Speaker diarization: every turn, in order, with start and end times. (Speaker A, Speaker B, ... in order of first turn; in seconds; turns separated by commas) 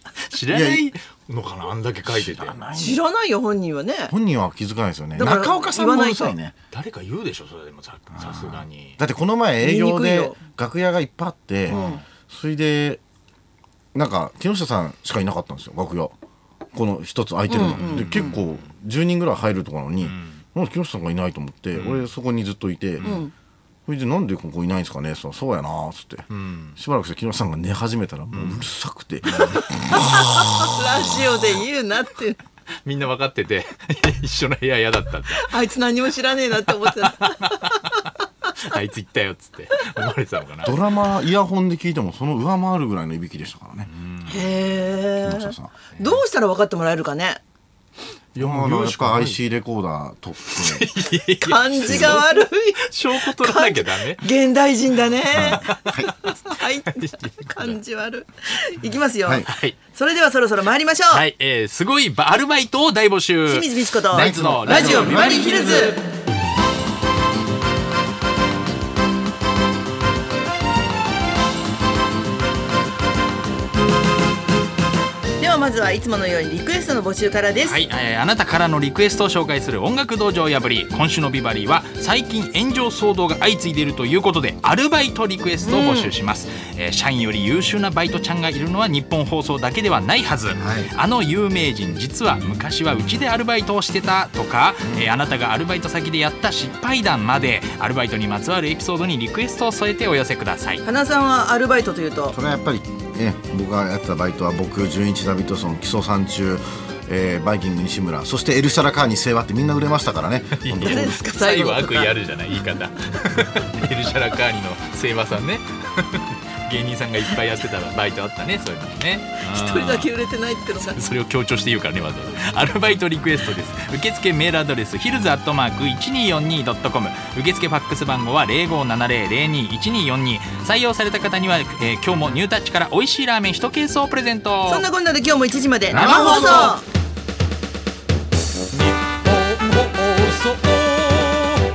Speaker A: 0.2-2.6, Speaker B: 0.5-0.9, Speaker B: 2.1-3.0, Speaker C: 2.7-4.1, Speaker B: 4.1-6.5, Speaker C: 5.1-6.3, Speaker A: 6.7-9.0, Speaker B: 8.2-13.0, Speaker C: 9.6-10.4, Speaker A: 11.7-12.0, Speaker C: 11.7-12.0, Speaker B: 13.9-16.1, Speaker B: 16.7-23.2, Speaker C: 17.5-18.3, Speaker A: 17.6-18.7, Speaker A: 20.0-20.4, Speaker A: 21.7-22.1, Speaker C: 23.0-23.3, Speaker B: 23.9-30.1, Speaker A: 26.3-26.8, Speaker A: 28.3-28.7, Speaker A: 29.3-29.6, Speaker C: 29.6-32.4, Speaker A: 30.2-31.3, Speaker A: 32.8-35.5, Speaker C: 35.3-38.1, Speaker A: 36.7-40.7, Speaker B: 40.6-43.9, Speaker A: 43.9-44.5, Speaker C: 44.2-47.4, Speaker B: 45.1-46.0, Speaker A: 48.3-49.4, Speaker B: 48.4-50.9, Speaker A: 50.5-54.2, Speaker C: 51.4-61.3, Speaker B: 51.7-52.2, Speaker B: 55.3-56.1, Speaker A: 55.3-57.8, Speaker A: 59.5-59.8, Speaker A: 61.1-66.0, Speaker C: 63.5-66.0, Speaker B: 64.1-65.9, Speaker C: 75.4-77.8, Speaker A: 77.6-100.8, Speaker C: 85.6-86.1, Speaker B: 90.6-90.9, Speaker B: 94.8-95.1, Speaker C: 100.8-102.3, Speaker B: 102.3-111.2, Speaker A: 110.6-120.1, Speaker C: 110.8-112.2, Speaker C: 119.4-121.0, Speaker A: 120.8-134.8, Speaker C: 134.6-136.8, Speaker A: 135.9-136.8, Speaker A: 139.6-141.3